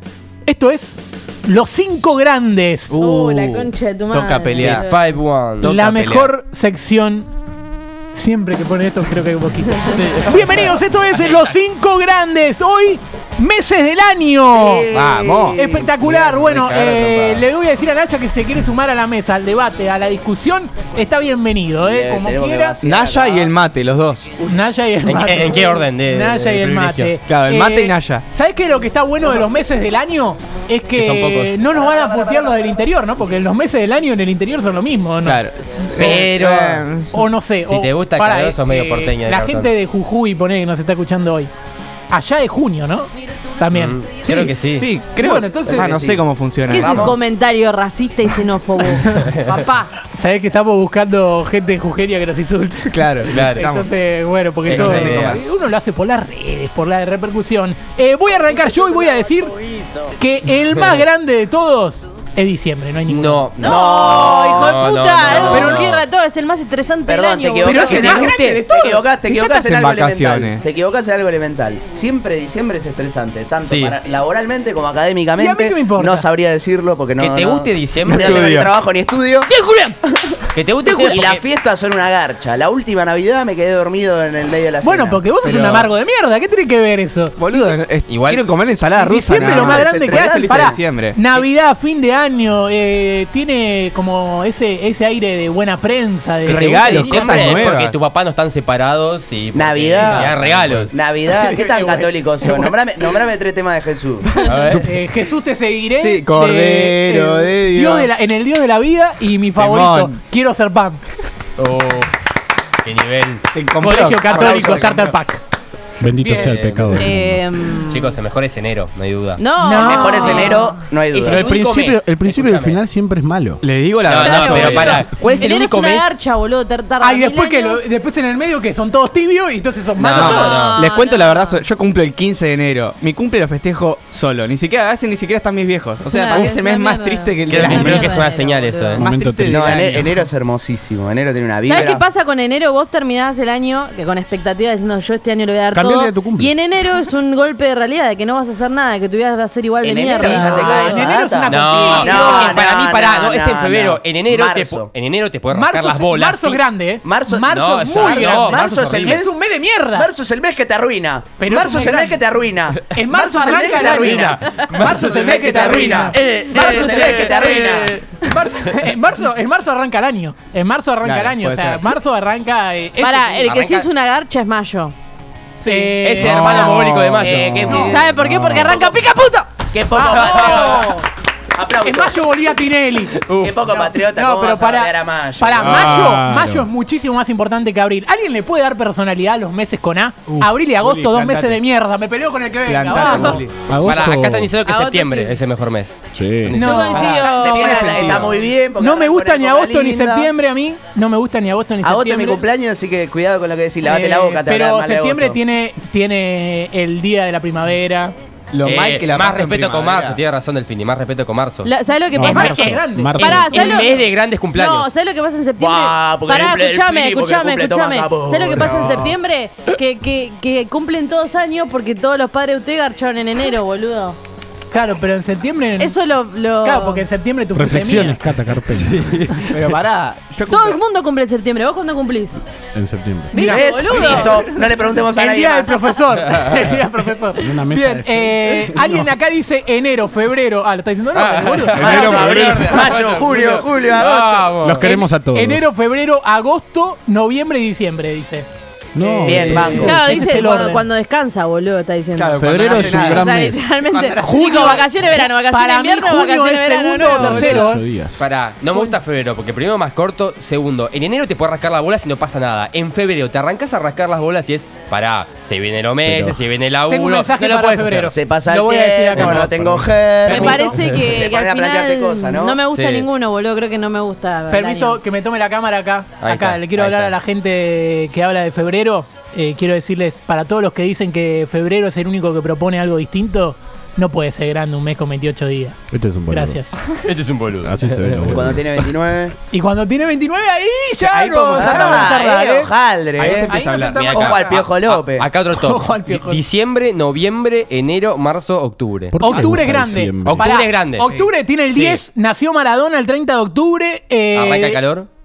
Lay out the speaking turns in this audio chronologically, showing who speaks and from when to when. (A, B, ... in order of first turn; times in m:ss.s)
0:00.5-0:03.0 A
0:02.9-0:04.9 B
0:02.9-0:05.1 C
0:04.6-0:05.8 D
0:05.6-0:07.3 A
0:05.6-0:06.3 B
0:08.1-0:14.9 A
0:09.9-0:10.4 D
0:14.5-0:15.9 E
0:14.9-0:15.6 B
0:15.5-0:22.8 A
0:16.3-0:17.4 D
0:21.8-0:23.5 E
0:22.8-0:24.3 B
0:24.4-0:35.4 A
0:25.0-0:27.1 D
0:27.3-0:28.2 B
0:31.0-0:31.6 D
0:35.2-0:37.3 B
0:36.0-0:36.9 D
0:37.1-0:41.5 A
0:37.7-0:39.7 D
0:42.1-0:44.6 A
0:43.7-0:44.9 D
0:44.7-0:47.2 B
0:45.1-0:46.0 A
0:45.6-0:47.2 E
0:46.7-0:49.9 C
0:50.1-0:59.6 A
0:52.9-0:53.9 B
0:53.3-0:53.7 D
0:54.7-0:55.4 D
0:54.7-0:55.4 B
1:00.2-1:03.5 A
1:03.1-1:06.0 D
1:03.6-1:09.0 C
1:03.6-1:05.9 E
1:07.1-1:19.5 E
1:07.7-1:08.3 A
1:09.1-1:10.6 B
1:13.6-1:14.0 D
1:15.4-1:16.3 A
1:17.2-1:18.5 D
1:18.1-1:18.7 B
1:19.5-1:20.0 A
1:20.5-1:21.4 D
1:20.8-1:25.3 E
1:24.8-1:27.4 A
1:25.4-1:25.9 B
1:27.4-1:31.4 B
1:28.1-1:28.5 D
1:29.0-1:37.3 A
1:29.4-1:30.8 E
1:36.5-1:38.0 B
1:36.5-1:40.9 D
1:39.5-1:44.3 E
1:40.0-1:40.4 B
1:40.3-1:40.8 F
1:41.4-1:42.0 B
1:44.4-1:44.9 D
1:44.8-1:51.1 A
1:46.0-1:48.1 B
1:49.6-1:50.2 B
1:51.6-1:52.1 D
1:52.8-1:53.4 D
1:53.5-1:55.1 B
1:53.8-1:55.4 A
1:54.3-1:54.9 E
1:56.0-1:57.4 F
1:56.2-1:57.1 D
1:57.0-1:58.2 C
1:57.8-1:59.4 D
1:59.4-2:01.7 C
1:59.6-2:00.7 A
1:59.8-2:01.4 E
2:01.1-2:02.8 D
2:01.2-2:03.6 F
2:03.6-2:06.1 B
2:04.1-2:05.2 D
2:04.1-2:07.8 C
2:07.0-2:10.6 A
2:10.0-2:10.8 D
2:10.1-2:18.2 B
2:10.2-2:11.6 C
2:16.0-2:19.0 C
2:17.5-2:19.0 D
2:17.6-2:18.1 F
2:19.0-2:20.0 F
2:19.0-2:20.1 B
2:19.5-2:22.0 E
2:21.6-2:31.2 C
2:25.7-2:26.5 F
2:29.8-2:34.9 E
2:30.1-2:32.6 A
2:31.5-2:36.6 D
2:35.5-2:40.1 A
2:37.0-2:39.4 E
2:37.5-2:39.2 D
2:39.9-2:48.0 E
2:41.4-2:42.2 A
2:42.8-2:46.2 A
2:44.1-2:46.0 B
2:44.8-2:45.1 D
2:46.1-2:48.7 D
2:46.9-2:47.2 A
2:48.2-2:53.5 A
2:51.0-2:51.9 B
2:53.0-2:54.9 C
2:53.4-2:53.9 D
2:55.6-2:56.8 A
2:55.7-2:56.9 C
2:56.0-2:57.7 D
2:56.2-2:58.7 F
2:57.2-2:59.0 E
2:57.5-2:59.7 C
2:59.7-3:01.0 E
2:59.9-3:01.1 A
3:00.1-3:00.6 D
3:01.5-3:02.2 E
3:01.8-3:13.4 A
3:03.4-3:05.9 E
3:05.6-3:06.7 F
3:10.3-3:11.6 B
3:12.6-3:13.5 B
3:13.0-3:13.4 C
3:13.7-3:14.5 F
3:13.8-3:15.9 D
3:14.6-3:15.4 C
3:16.1-3:16.7 F
3:16.4-3:17.1 D
3:16.5-3:18.1 C
3:16.5-3:22.4 A
3:16.9-3:18.4 B
3:17.2-3:20.3 E
3:21.8-3:25.4 E
3:23.8-3:24.3 B
3:23.9-3:28.1 A
3:28.5-3:30.2 B
3:28.6-3:31.7 D
3:31.6-3:44.2 C
3:32.1-3:33.7 F
3:32.2-3:34.0 A
3:33.5-3:34.9 D
3:35.6-3:39.1 E
3:38.5-3:39.1 B
3:44.7-3:46.0 A
3:45.8-3:47.0 C
3:46.6-3:48.2 A
3:47.5-3:49.2 F
3:48.7-3:49.7 D
3:49.4-3:50.8 B
3:50.5-3:52.4 C
3:52.7-3:53.4 F
3:53.3-3:54.4 C
3:53.3-3:54.4 A
3:53.4-3:55.8 E
3:55.0-4:02.4 A
3:57.4-3:59.1 F
4:01.1-4:04.9 D
4:01.8-4:02.8 F
4:01.8-4:04.5 E
4:04.6-4:05.7 F
4:04.8-4:08.4 A
4:08.9-4:10.0 F
4:09.0-4:10.9 A
4:09.1-4:10.0 E
4:09.2-4:09.9 D
4:09.7-4:17.7 C
4:12.1-4:13.3 B
4:12.4-4:13.7 F
4:13.8-4:14.8 B
4:14.2-4:17.8 A
4:17.1-4:18.2 F
4:18.2-4:28.1 D
4:18.7-4:19.0 A
4:26.0-4:26.4 F
4:26.9-4:30.8 A
4:28.1-4:32.6 E
4:29.1-4:29.5 D
4:30.2-4:35.0 C
4:32.7-4:33.1 D
4:34.5-4:45.8 A
4:36.2-4:37.2 D
4:45.9-4:46.6 F
4:46.3-4:46.8 A
4:47.0-4:47.8 D
4:47.6-4:48.7 F
4:48.3-4:49.4 E
4:49.5-4:52.7 A
4:51.0-4:55.3 E
4:51.6-4:52.2 B
4:53.2-4:54.6 B
4:53.2-4:59.2 D
4:53.5-4:54.4 A
4:55.5-4:56.4 A
4:59.1-5:00.5 F
4:59.2-5:04.8 A
4:59.3-4:59.7 B
5:00.2-5:01.1 D
5:01.0-5:01.3 B
5:01.7-5:02.0 D
5:04.3-5:05.1 D